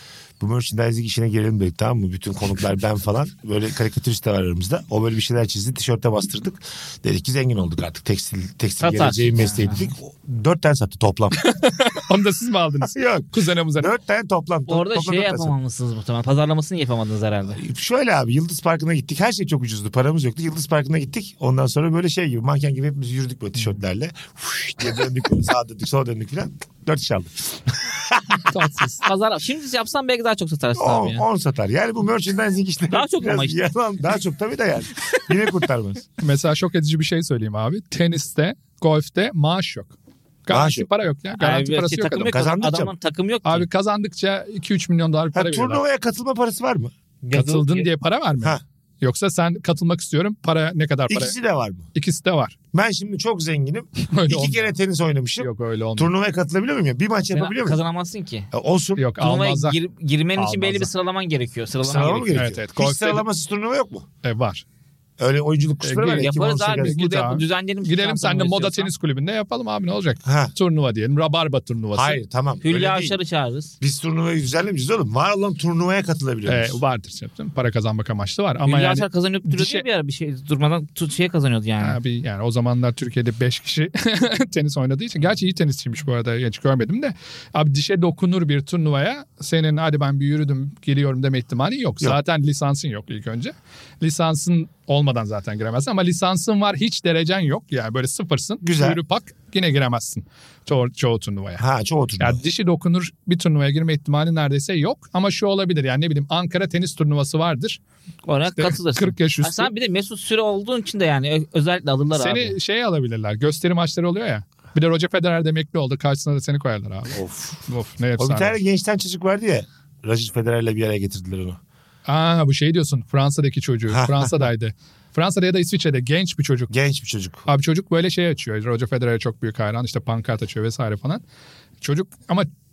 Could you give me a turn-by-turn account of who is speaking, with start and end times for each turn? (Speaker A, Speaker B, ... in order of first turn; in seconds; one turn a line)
Speaker A: 0.4-11.4
Speaker B: 8.8-9.9
Speaker C: 11.4-13.9
Speaker A: 12.9-15.5
Speaker B: 14.7-17.6
Speaker A: 17.6-28.5
Speaker C: 28.5-29.0
Speaker B: 29.0-31.2
Speaker A: 30.8-36.1
Speaker B: 32.9-33.6
Speaker C: 36.2-39.9
Speaker C: 40.5-42.4
Speaker A: 40.5-40.9
Speaker B: 41.4-43.7
Speaker A: 42.3-42.9
Speaker C: 43.5-45.8
Speaker A: 45.3-46.9
Speaker B: 47.2-47.9
Speaker C: 47.3-51.4
Speaker A: 51.1-51.9
Speaker C: 52.0-52.6
Speaker A: 52.7-57.8
Speaker C: 54.1-54.7
Speaker C: 55.4-56.1
Speaker B: 57.3-58.5
Speaker A: 58.5-59.1
Speaker C: 59.0-59.8
Speaker B: 59.2-62.4
Speaker C: 60.4-60.9
Speaker A: 61.8-64.1
Speaker C: 62.0-63.2
Speaker C: 64.2-64.6
Speaker A: 65.2-67.0
Speaker C: 65.8-72.2
Speaker B: 66.1-68.9
Speaker A: 70.2-70.5
Speaker A: 71.9-73.2
Speaker B: 72.6-73.7
Speaker A: 73.8-76.8
Speaker C: 76.5-79.8
Speaker B: 78.6-82.0
Speaker C: 81.8-101.6
Speaker A: 98.6-99.0
Speaker A: 101.6-102.4
Speaker C: 102.2-107.8
Speaker B: 108.3-112.5
Speaker C: 108.6-109.7
Speaker C: 112.1-118.6
Speaker A: 117.1-117.6
Speaker A: 118.2-121.6
Speaker C: 122.1-126.7
Speaker A: 123.9-124.5
Speaker A: 126.7-127.5
Speaker C: 127.5-131.2
Speaker C: 131.8-132.5